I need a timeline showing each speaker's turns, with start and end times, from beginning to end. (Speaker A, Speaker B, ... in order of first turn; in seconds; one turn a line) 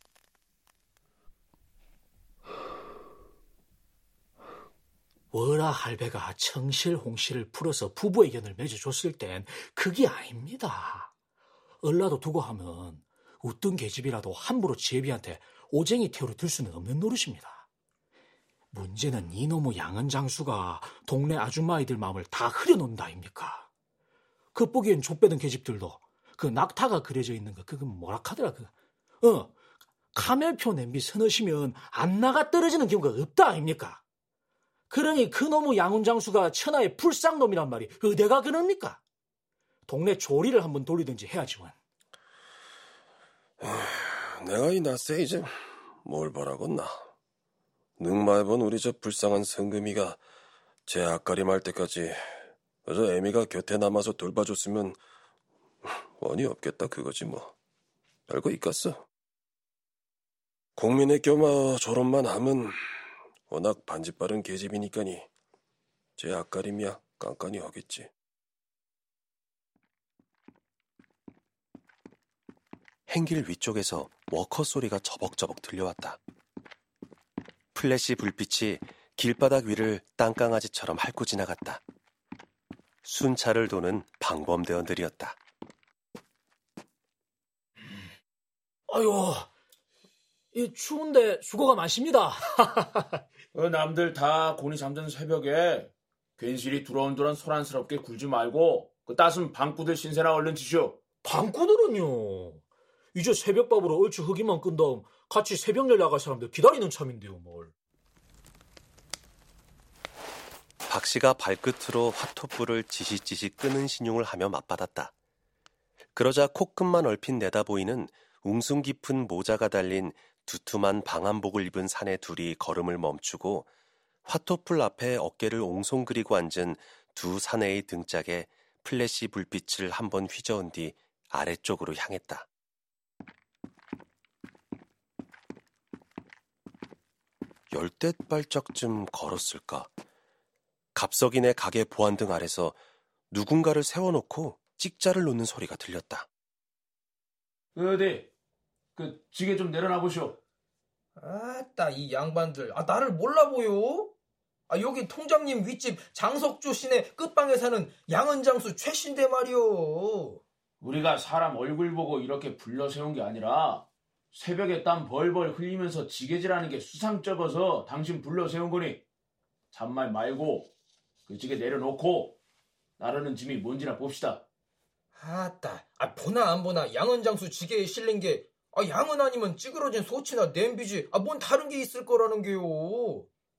Speaker A: 5.3-11.1
Speaker A: 11.8-17.6
Speaker A: 18.7-23.7
Speaker A: 24.5-28.7
Speaker A: 29.2-29.5
Speaker A: 30.1-34.0
Speaker A: 34.9-39.0
Speaker A: 39.9-41.7
Speaker B: 43.6-46.9
Speaker B: 48.0-50.2
Speaker B: 50.9-52.2
Speaker B: 52.9-55.0
Speaker B: 55.8-57.5
Speaker B: 58.3-59.0
Speaker B: 60.8-62.8
Speaker B: 63.5-65.3
Speaker B: 66.2-68.1
Speaker C: 73.1-76.2
Speaker C: 77.7-81.8
Speaker C: 83.0-85.4
Speaker A: 88.9-89.5
Speaker A: 90.5-93.2
Speaker D: 93.5-101.0
Speaker A: 101.2-102.6
Speaker A: 103.1-107.7
Speaker C: 110.9-115.1
Speaker C: 116.1-123.7
Speaker C: 124.2-132.4
Speaker C: 137.7-139.9
Speaker C: 140.9-142.8
Speaker C: 143.3-146.3
Speaker D: 147.7-148.3
Speaker D: 148.9-150.4
Speaker E: 151.2-154.1
Speaker E: 154.7-160.4
Speaker D: 160.8-169.0
Speaker D: 169.7-170.7
Speaker D: 171.3-172.4
Speaker D: 173.0-174.4
Speaker E: 175.2-183.3